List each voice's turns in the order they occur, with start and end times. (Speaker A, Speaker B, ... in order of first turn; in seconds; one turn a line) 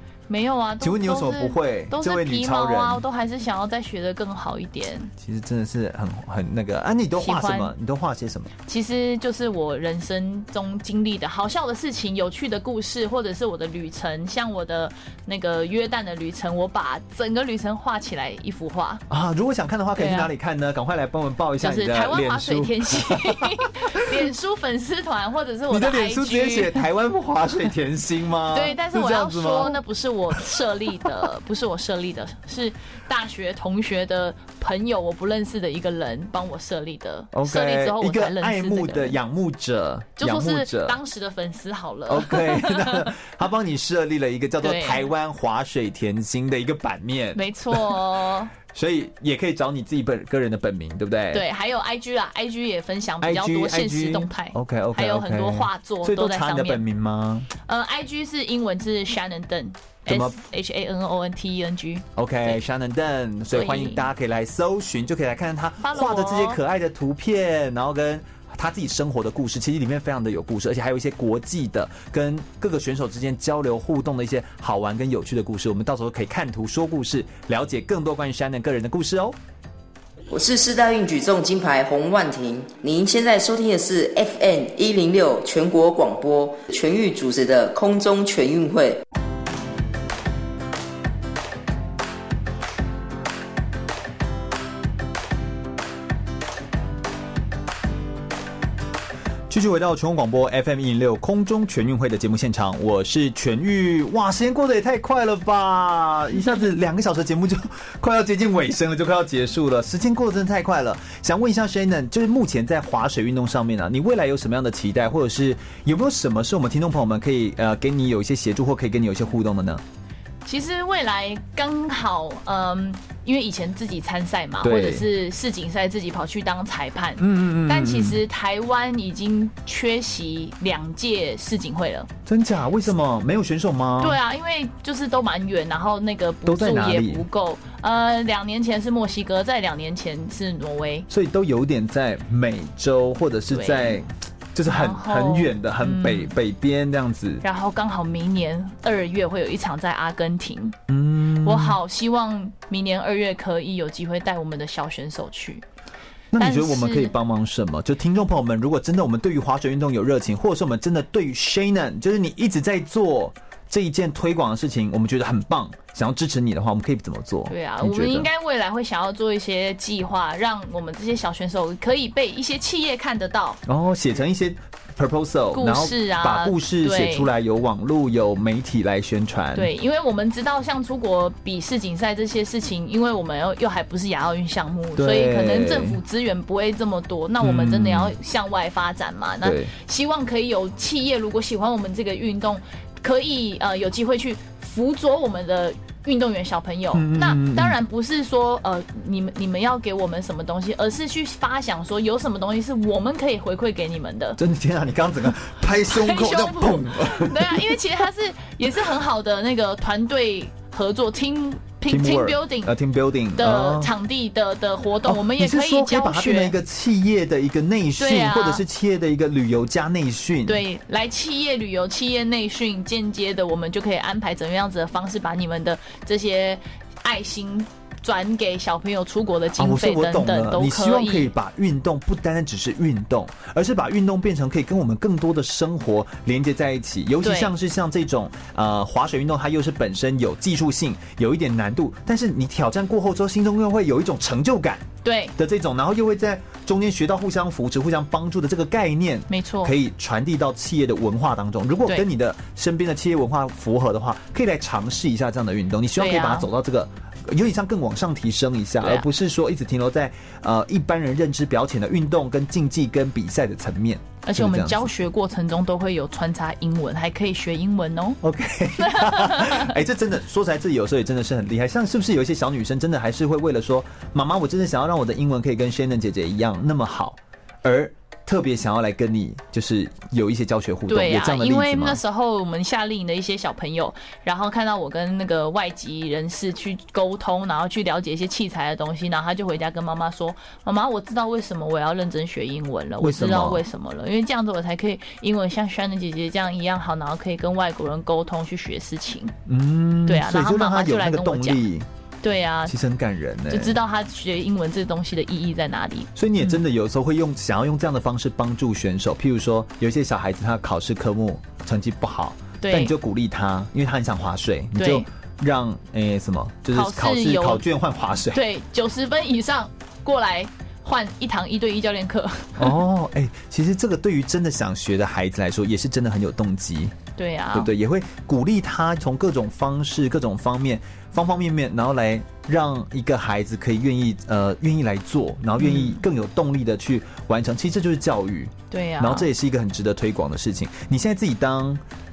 Speaker A: 0.3-5.1
Speaker B: 0.8-3.0
Speaker B: 5.2-8.5
Speaker A: 7.2-7.7
Speaker A: 8.7-19.0
Speaker B: 19.1-24.3
Speaker A: 20.0-20.3
Speaker A: 21.6-26.8
Speaker B: 25.7-29.8
Speaker A: 28.5-39.2
Speaker B: 37.3-41.0
Speaker A: 40.2-43.1
Speaker B: 42.1-51.4
Speaker A: 44.6-45.1
Speaker A: 47.3-48.5
Speaker A: 51.3-56.8
Speaker B: 53.2-57.5
Speaker A: 57.6-62.5
Speaker B: 60.1-60.4
Speaker B: 62.1-79.3
Speaker A: 63.5-64.0
Speaker A: 65.8-66.6
Speaker C: 80.3-89.0
Speaker B: 99.5-119.8
Speaker A: 120.4-132.1
Speaker B: 124.6-125.1
Speaker B: 127.2-128.2
Speaker B: 132.2-134.2
Speaker A: 134.0-141.1
Speaker B: 136.4-137.2
Speaker B: 141.1-147.4
Speaker A: 143.5-144.0
Speaker A: 144.7-146.3
Speaker A: 147.4-150.8
Speaker B: 150.9-151.8
Speaker A: 151.4-155.6
Speaker B: 156.3-168.3
Speaker A: 156.4-157.1
Speaker A: 167.5-173.6
Speaker B: 173.7-179.7
Speaker A: 175.5-177.3
Speaker A: 179.5-204.4
Speaker B: 184.9-186.0
Speaker B: 187.4-188.1
Speaker B: 189.4-189.7
Speaker B: 196.9-197.8
Speaker B: 204.4-207.8
Speaker A: 205.9-212.7
Speaker B: 211.9-213.9
Speaker A: 213.3-216.5
Speaker B: 215.0-220.6
Speaker A: 218.0-218.6
Speaker A: 220.4-231.3
Speaker B: 229.6-264.9
Speaker A: 237.2-237.5
Speaker A: 245.0-245.3
Speaker A: 249.3-249.7
Speaker A: 256.0-256.5
Speaker A: 258.8-259.1
Speaker A: 264.2-268.2
Speaker B: 268.2-282.0
Speaker A: 268.8-269.7
Speaker A: 280.9-299.3
Speaker B: 293.0-293.6
Speaker B: 299.5-301.9
Speaker A: 300.1-301.6
Speaker A: 302.2-302.7
Speaker B: 302.7-303.8
Speaker A: 303.5-306.6
Speaker B: 306.1-318.4
Speaker A: 312.6-312.9
Speaker A: 314.8-315.1
Speaker A: 316.7-317.6
Speaker A: 318.3-322.7
Speaker B: 322.6-326.9
Speaker A: 327.2-327.7
Speaker B: 327.5-341.8
Speaker A: 335.6-336.0
Speaker A: 338.7-339.3